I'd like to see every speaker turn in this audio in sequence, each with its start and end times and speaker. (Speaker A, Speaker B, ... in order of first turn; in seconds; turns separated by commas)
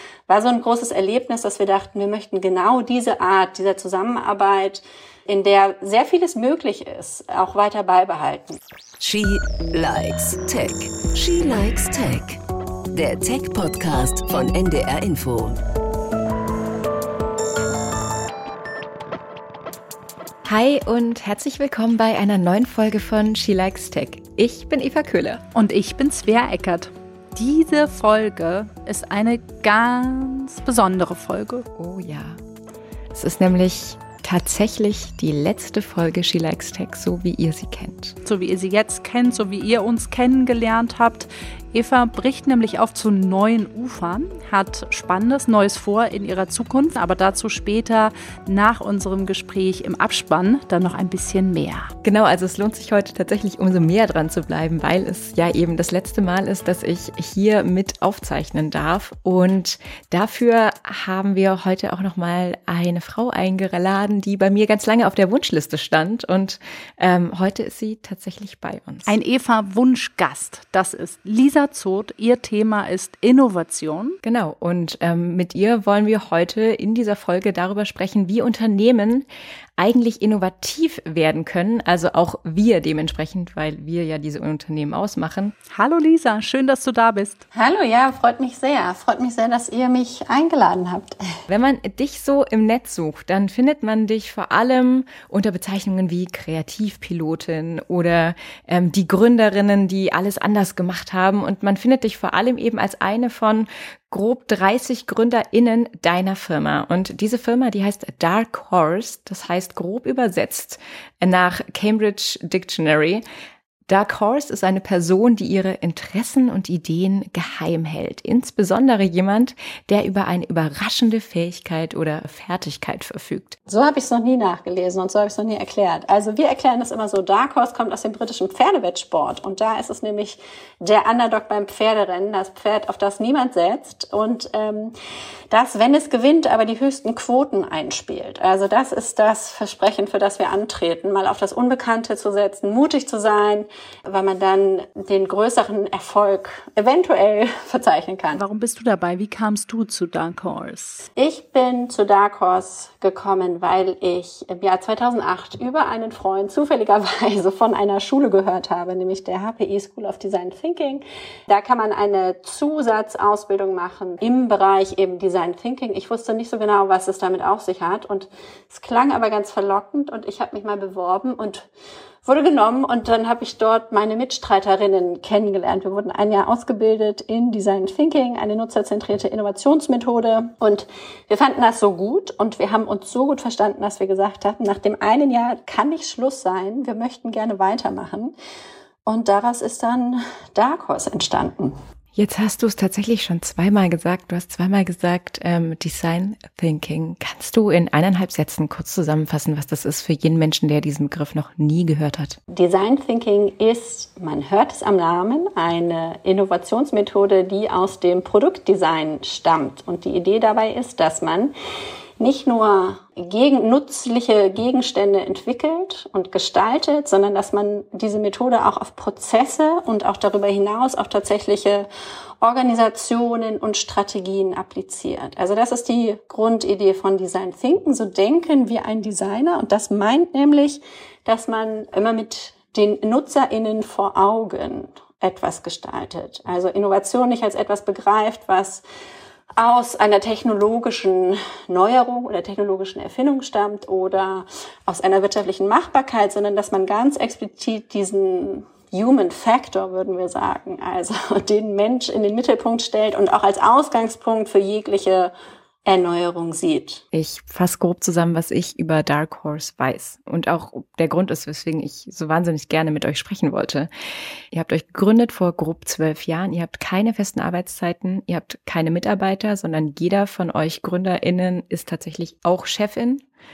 Speaker A: 0.3-8.6, Speaker B: 9.0-12.4, Speaker B: 12.9-15.6, Speaker C: 20.4-25.4, Speaker D: 25.5-31.6, Speaker C: 31.8-32.4, Speaker C: 33.1-38.1, Speaker D: 38.2-51.9, Speaker C: 52.0-69.1, Speaker D: 69.1-74.2, Speaker C: 74.2-85.5, Speaker D: 85.7-87.4, Speaker A: 87.5-91.2, Speaker C: 91.5-113.2, Speaker C: 113.9-123.6, Speaker A: 123.7-134.9, Speaker A: 135.5-148.4, Speaker D: 148.3-151.0, Speaker A: 151.2-171.7, Speaker A: 172.2-188.3, Speaker A: 189.1-191.8, Speaker C: 192.1-202.4, Speaker A: 202.5-211.5, Speaker A: 212.2-221.9, Speaker A: 222.4-238.8, Speaker A: 239.6-255.3, Speaker A: 255.8-257.0, Speaker C: 257.1-263.9, Speaker C: 264.5-273.2